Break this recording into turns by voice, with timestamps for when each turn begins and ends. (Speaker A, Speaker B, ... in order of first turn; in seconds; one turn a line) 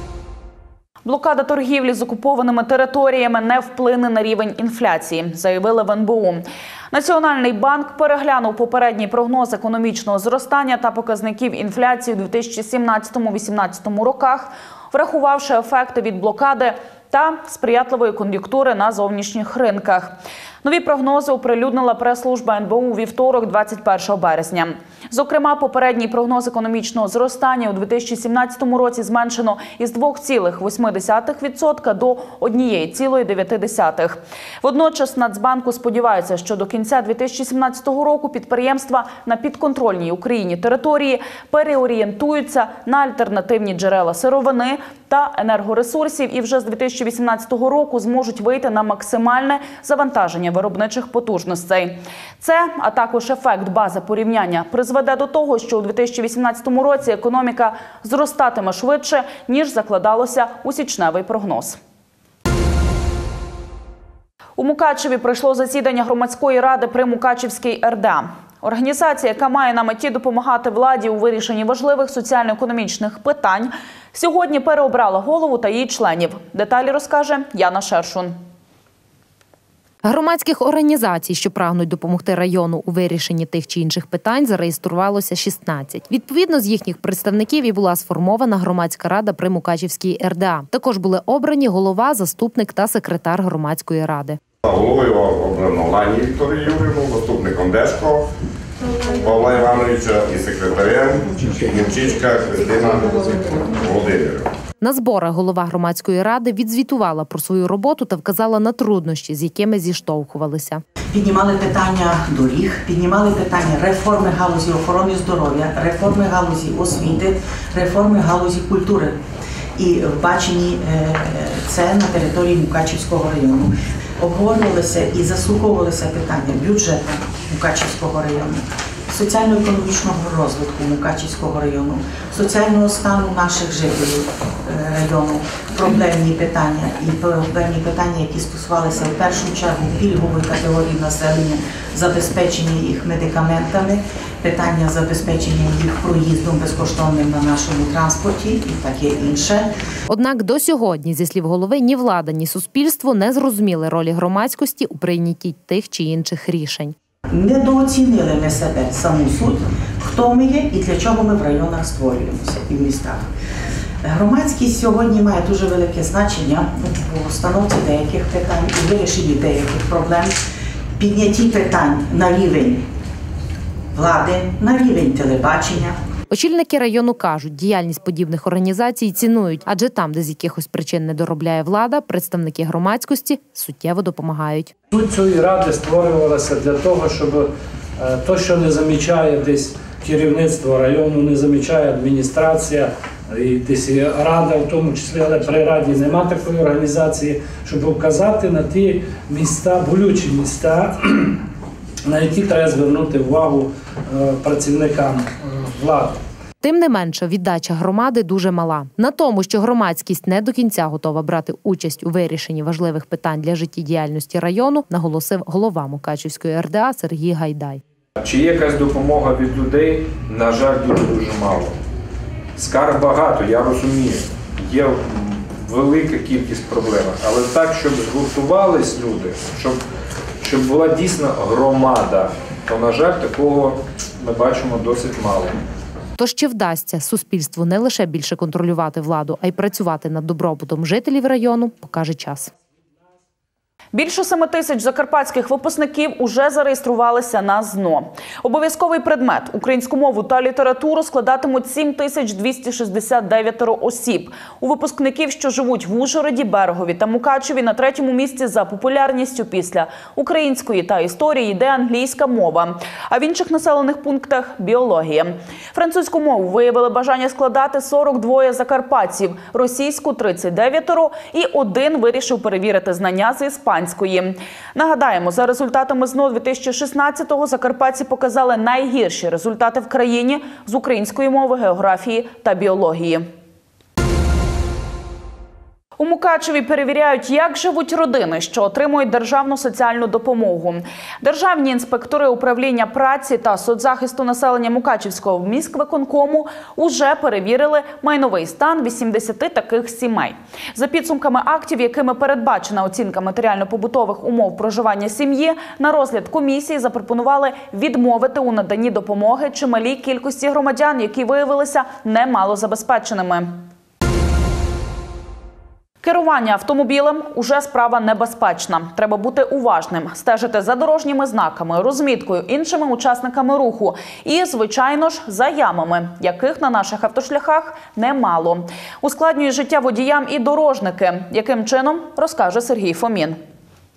Speaker A: 1.0-61.8
Speaker A: 64.6-78.3
Speaker B: 80.0-94.4
Speaker C: 94.6-98.3
Speaker C: 99.1-104.5
Speaker B: 104.8-110.8
Speaker D: 111.1-119.2
Speaker D: 119.8-149.7
Speaker B: 150.1-156.9
Speaker D: 157.3-163.3
Speaker D: 164.0-170.3
Speaker D: 171.0-172.8
Speaker D: 173.9-175.9
Speaker B: 176.3-184.7
Speaker E: 184.9-201.4
Speaker E: 202.1-206.2
Speaker B: 206.6-217.8
Speaker F: 218.2-221.7
Speaker F: 222.6-229.8
Speaker F: 230.4-235.6
Speaker B: 236.2-242.5
Speaker A: 243.9-283.2
Speaker A: 286.0-313.6
Speaker A: 316.0-333.4